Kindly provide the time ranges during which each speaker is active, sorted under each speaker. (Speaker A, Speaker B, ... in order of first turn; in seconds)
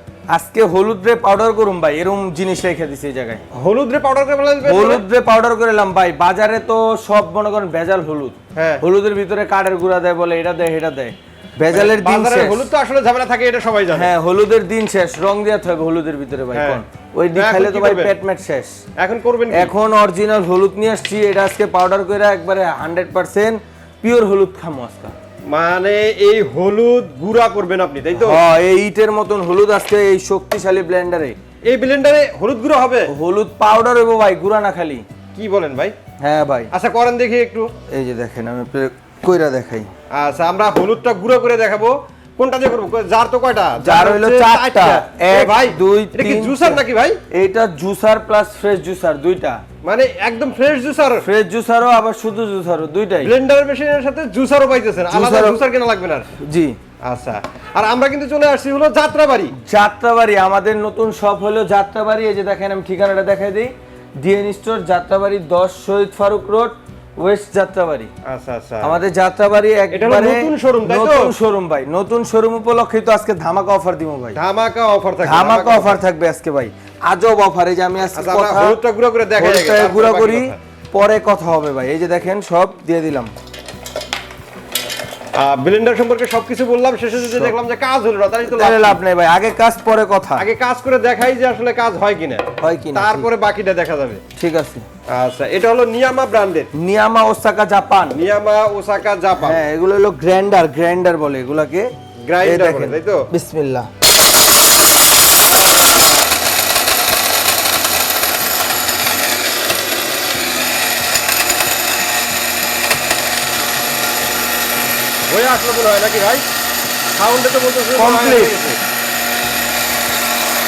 Speaker A: 0.3-3.4, 4.6-12.7, 13.9-18.8, 19.5-25.1, 28.1-31.4, 33.1-35.0, 36.2-36.7, 37.9-39.9, 43.8-49.6, 51.2-53.3, 55.1-55.6, 56.4-56.8, 59.6-68.1, 68.8-74.4, 75.2-78.8, 79.4-83.3, 87.2-87.5, 88.5-90.5, 92.6-93.3, 94.4-94.9, 96.8-98.2, 99.4-101.9, 102.4-103.9, 118.0-118.6
Speaker B: 3.5-5.0, 8.6-8.8, 11.7-14.1, 16.5-16.8, 17.4-18.1, 19.0-19.7, 25.5-28.4, 31.6-33.1, 35.3-36.0, 36.7-37.7, 40.1-47.2, 49.8-51.3, 53.2-56.3, 57.0-59.5, 68.2-69.0, 69.9-71.3, 74.4-76.0, 78.1-80.6, 85.3-89.0, 90.4-94.2, 95.1-96.7, 98.1-99.6, 102.3-103.3, 115.3-116.5, 117.2-118.8